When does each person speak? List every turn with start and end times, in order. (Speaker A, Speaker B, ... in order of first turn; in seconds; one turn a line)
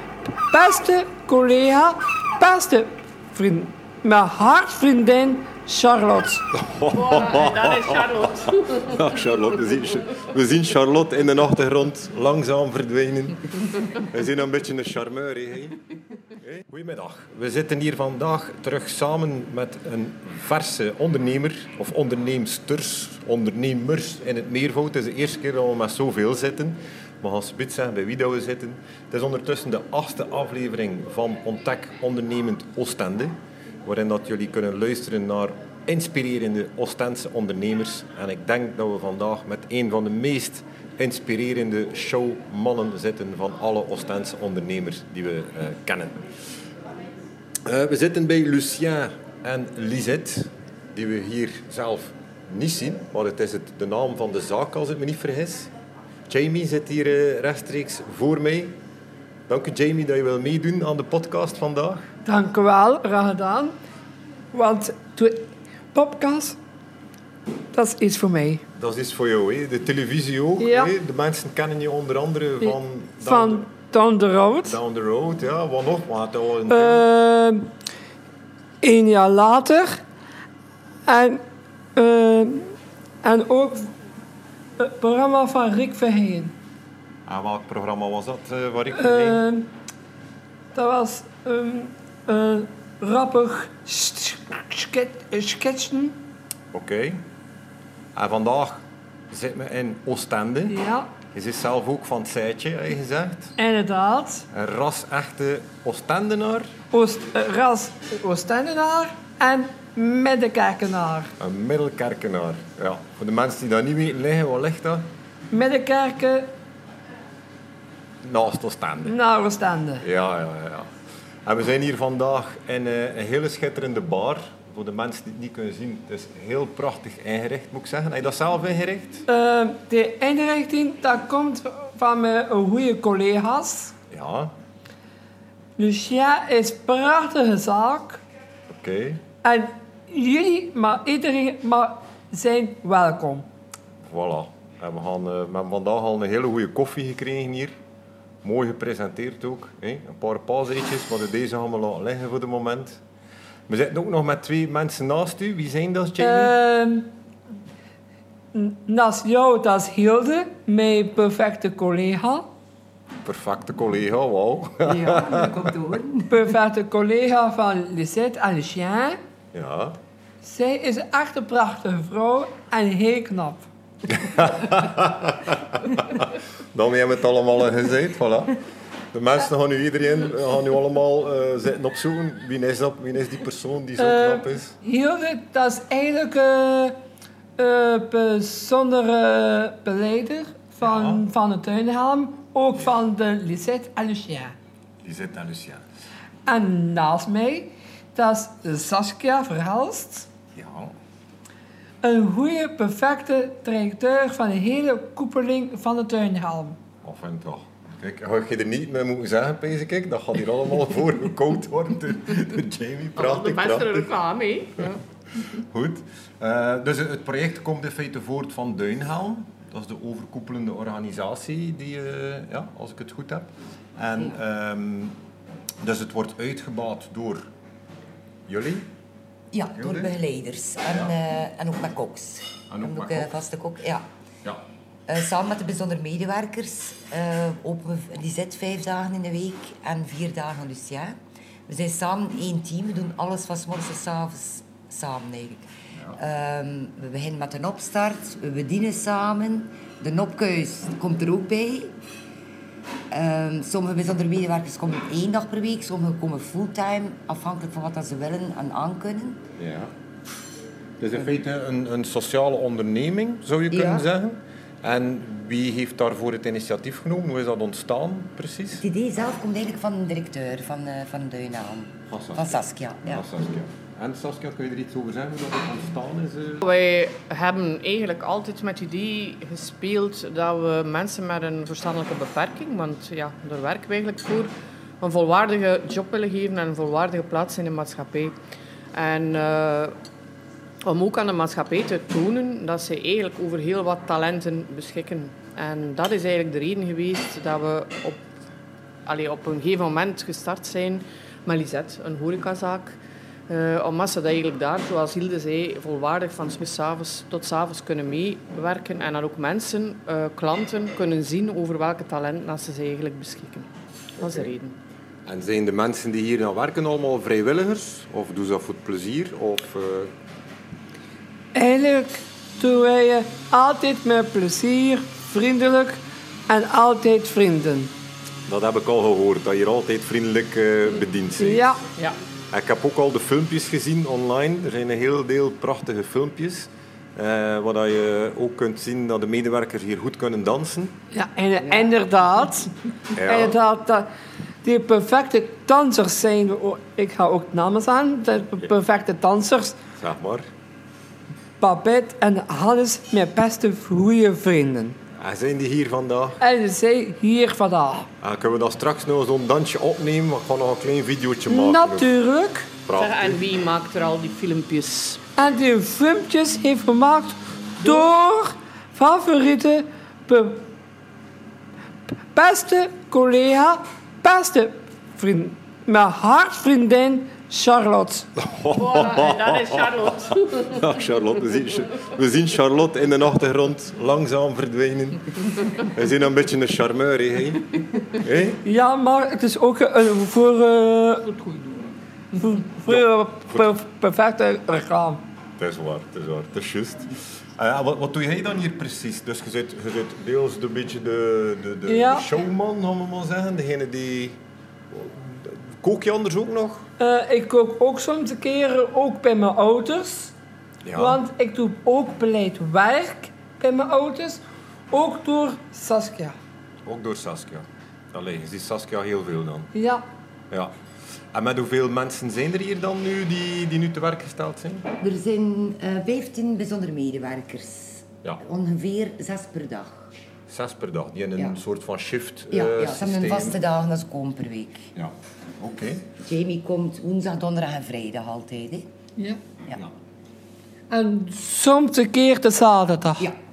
Speaker A: 0.5-6.5
Speaker B: 6.5-15.8
Speaker C: 6.9-9.1
Speaker B: 16.4-46.3
Speaker B: 47.6-55.7
Speaker B: 56.3-58.7
Speaker B: 59.5-62.1
Speaker A: 62.2-63.7
Speaker A: 64.5-66.6
Speaker A: 67.7-68.6
Speaker B: 68.8-73.7
Speaker A: 70.6-70.9
Speaker A: 72.6-74.8
Speaker B: 74.6-77.0
Speaker A: 76.7-77.7
Speaker A: 78.8-80.0
Speaker A: 81.1-81.4
Speaker A: 81.9-82.7
Speaker A: 83.2-83.9
Speaker A: 84.8-86.5
Speaker B: 87.2-89.4
Speaker A: 89.0-89.7
Speaker A: 90.7-96.2
Speaker B: 96.7-97.2
Speaker B: 98.1-100.8
Speaker A: 100.7-101.1
Speaker B: 101.3-103.5
Speaker A: 103.6-104.5
Speaker B: 104.5-106.7
Speaker A: 106.9-111.3
Speaker B: 111.4-115.1
Speaker A: 115.5-116.5
Speaker B: 118.2-119.2
Speaker A: 119.0-120.0
Speaker B: 120.0-120.9
Speaker B: 121.4-129.2
Speaker A: 129.3-133.9
Speaker B: 134.1-134.5
Speaker A: 135.8-138.2
Speaker B: 138.7-139.2
Speaker A: 139.4-143.4
Speaker B: 144.1-147.7
Speaker B: 148.4-153.0
Speaker B: 153.7-156.5
Speaker A: 156.2-157.1
Speaker A: 158.5-162.4
Speaker B: 163.2-165.7
Speaker D: 164.8-166.4
Speaker A: 166.3-169.2
Speaker B: 169.5-170.0
Speaker A: 170.4-173.7
Speaker B: 174.2-178.6
Speaker B: 179.1-184.7
Speaker A: 184.0-187.0
Speaker A: 187.6-194.5
Speaker B: 190.8-191.3
Speaker B: 195.0-195.8
Speaker A: 196.4-200.3
Speaker B: 200.6-200.9
Speaker A: 202.0-206.8
Speaker B: 207.0-214.1
Speaker C: 213.2-215.0
Speaker B: 215.4-225.2
Speaker B: 225.8-227.4
Speaker B: 228.5-228.9
Speaker D: 229.5-234.0
Speaker B: 229.8-230.1
Speaker B: 232.7-233.3
Speaker D: 235.1-241.2
Speaker D: 241.7-251.9
Speaker D: 253.1-259.4
Speaker B: 259.6-259.9
Speaker B: 261.0-268.8
Speaker D: 263.7-264.1
Speaker D: 268.8-273.3
Speaker B: 272.1-276.6
Speaker C: 276.6-288.3
Speaker C: 288.9-289.9
Speaker C: 290.8-298.2
Speaker C: 299.1-303.0
Speaker C: 303.5-313.7
Speaker C: 314.2-314.7
Speaker B: 314.2-314.5
Speaker B: 315.2-320.1
Speaker A: 321.5-327.9
Speaker B: 328.5-331.8
Speaker A: 331.4-331.8
Speaker B: 332.5-341.0
Speaker A: 341.1-344.1
Speaker B: 343.1-343.5
Speaker A: 344.6-349.8
Speaker B: 350.0-350.5
Speaker A: 351.6-355.0
Speaker B: 355.1-356.4
Speaker A: 356.4-358.1
Speaker B: 358.2-362.1
Speaker A: 361.5-362.7
Speaker B: 362.9-363.4
Speaker C: 362.9-365.2
Speaker A: 365.4-370.7
Speaker A: 372.3-378.3
Speaker B: 378.4-388.6
Speaker C: 378.7-380.9
Speaker A: 388.6-391.3
Speaker C: 391.3-391.9
Speaker A: 392.3-395.2
Speaker B: 395.6-404.4
Speaker A: 401.9-402.3
Speaker B: 404.9-406.9
Speaker A: 407.0-410.3
Speaker B: 410.8-411.2
Speaker A: 410.9-416.4
Speaker B: 416.8-419.7
Speaker A: 419.7-420.0
Speaker B: 421.3-424.9
Speaker D: 425.0-430.1
Speaker B: 430.5-433.6
Speaker D: 432.5-434.9
Speaker B: 434.9-436.1
Speaker D: 436.2-438.9
Speaker A: 440.9-443.3